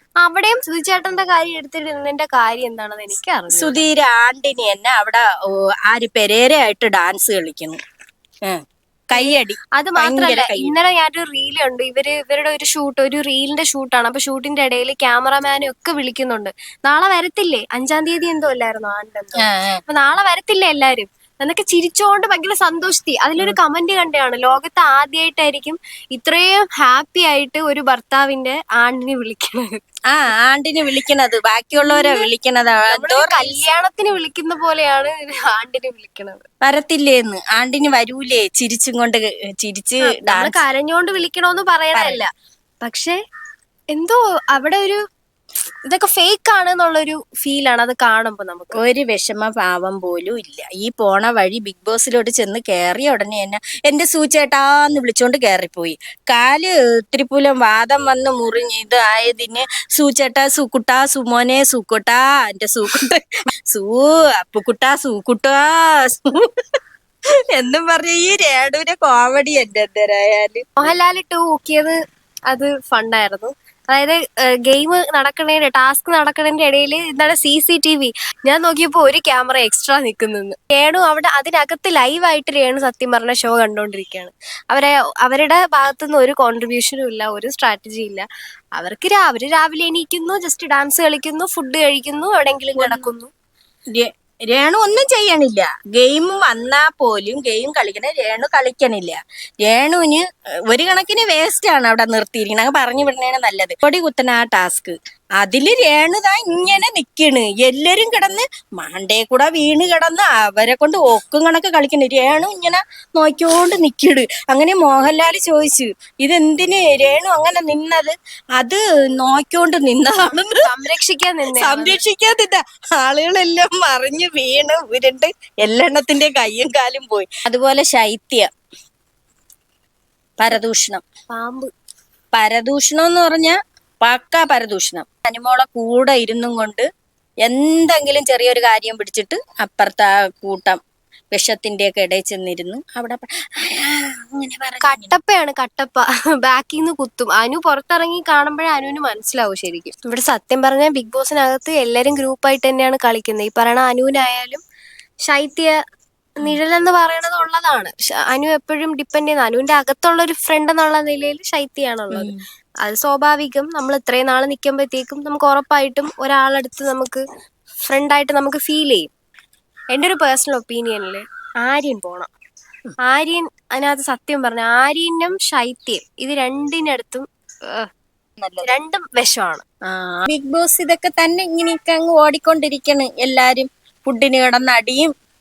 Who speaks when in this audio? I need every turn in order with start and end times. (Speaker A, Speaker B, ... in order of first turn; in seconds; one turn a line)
Speaker A: 0.2-3.8
Speaker B: 3.5-5.3
Speaker B: 5.9-7.8
Speaker B: 8.4-10.7
Speaker A: 9.1-29.8
Speaker B: 19.4-19.8
Speaker B: 30.1-33.6
Speaker A: 31.7-32.3
Speaker A: 32.9-36.4
Speaker B: 36.6-40.6
Speaker A: 40.0-42.3
Speaker B: 41.9-42.2
Speaker A: 42.8-43.2
Speaker A: 43.9-45.0
Speaker A: 45.9-48.8
Speaker B: 48.8-66.4
Speaker B: 67.5-70.7
Speaker A: 70.8-72.0
Speaker A: 72.5-88.2
Speaker A: 88.8-93.3
Speaker B: 92.8-93.1
Speaker B: 93.9-120.6
Speaker A: 120.6-122.0
Speaker B: 121.6-128.5
Speaker B: 130.4-131.0
Speaker A: 131.3-131.7
Speaker B: 132.3-136.8
Speaker B: 137.4-140.8
Speaker B: 141.3-145.1
Speaker A: 144.8-154.6
Speaker A: 155.3-155.7
Speaker A: 156.4-162.3
Speaker B: 162.1-162.4
Speaker A: 162.8-167.2
Speaker A: 167.8-169.1
Speaker A: 169.9-172.3
Speaker A: 173.1-177.9
Speaker B: 178.4-178.7
Speaker A: 178.6-179.6
Speaker B: 179.9-185.1